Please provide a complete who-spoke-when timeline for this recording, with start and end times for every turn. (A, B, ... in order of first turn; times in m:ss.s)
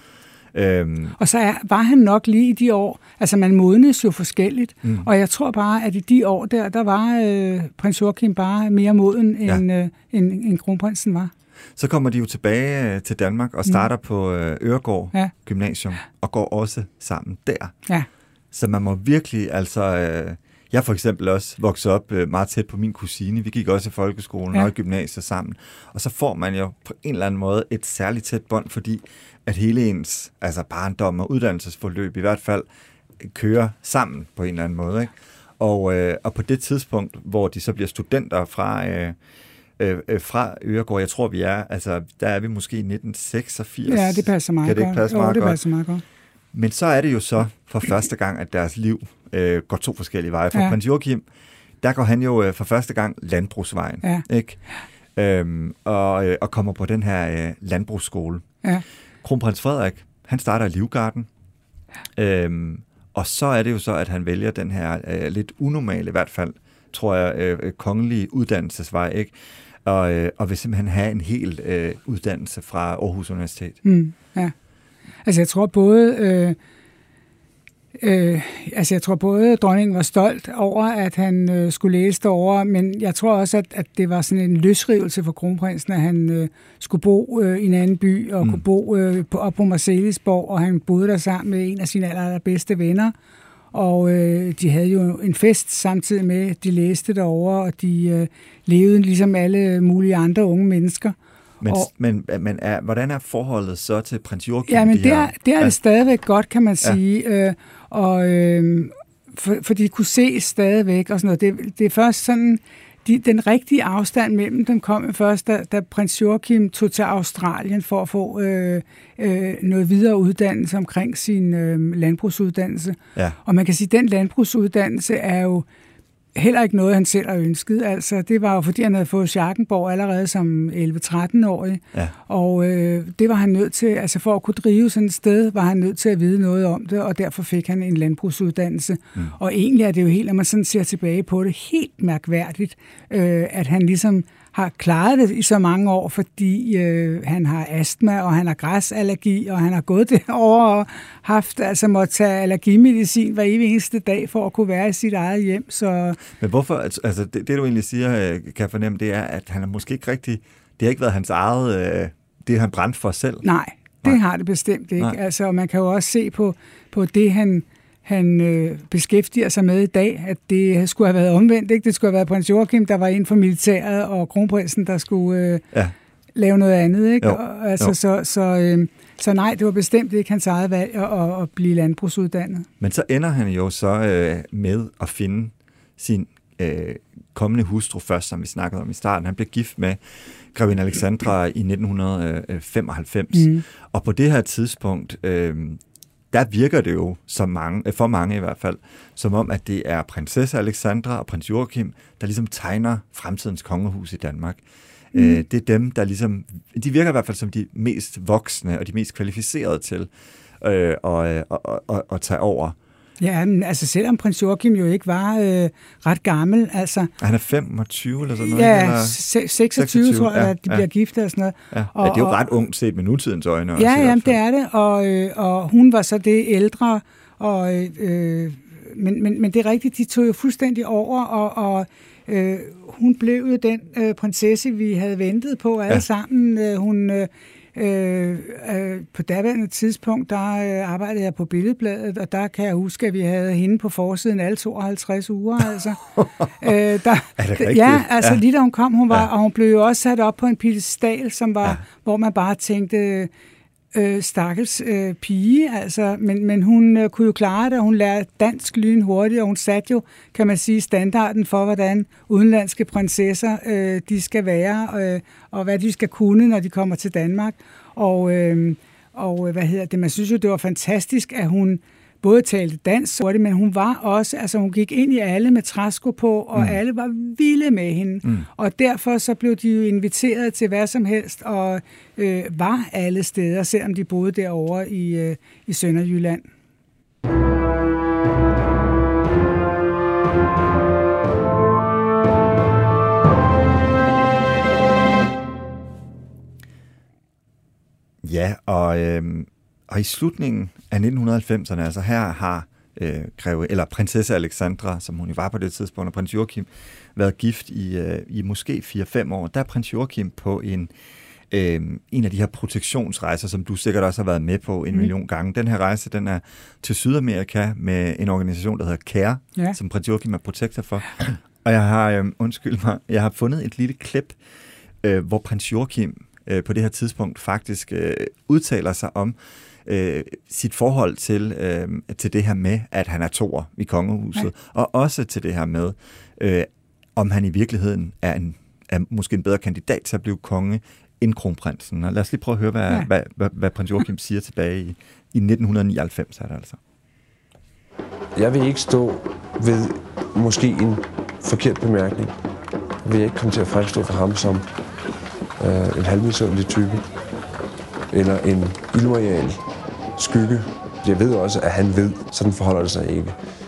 0:00.5-0:01.2 A
0:01.2-0:11.3 B
0:11.8-0:17.8 A
0:18.5-0:32.7 A
0:33.2-0:39.2 A
0:39.8-0:45.6 A
0:43.9-0:46.0 B
0:46.5-0:51.2 A
0:51.8-0:54.6 A
0:55.2-0:58.5 A
0:59.2-1:01.3 A
1:02.2-1:09.3 A
1:09.8-1:13.8 A
1:13.8-1:14.5 B
1:15.2-1:16.6 B
1:18.0-1:33.1 B
1:33.7-1:41.9 B
1:41.6-1:45.8 A
1:44.7-2:05.6 B
2:06.3-2:36.2 B
2:36.4-2:43.4 A
2:43.4-2:55.6 B
2:56.3-3:02.7 B
2:57.2-2:57.9 A
3:02.8-3:10.0 A
3:10.5-3:15.8 A
3:13.3-3:13.6 B
3:16.3-3:24.6 A
3:25.1-3:30.1 A
3:25.1-3:25.4 B
3:30.6-3:32.8 A
3:33.2-3:37.1 B
3:37.2-3:39.2 A
3:38.4-3:42.4 B
3:39.7-3:40.9 A
3:41.7-3:44.4 A
3:43.8-4:06.0 B
4:06.2-4:06.7 A
4:06.6-4:13.3 B
4:07.4-4:08.4 A
4:13.9-4:46.5 B
4:58.2-5:10.9 A
5:11.5-5:24.4 A
5:25.0-5:46.8 A
5:48.3-5:52.4 C
5:53.0-5:54.7 C
5:55.6-5:57.1 C
5:58.1-5:59.6 C
6:00.2-6:03.4 C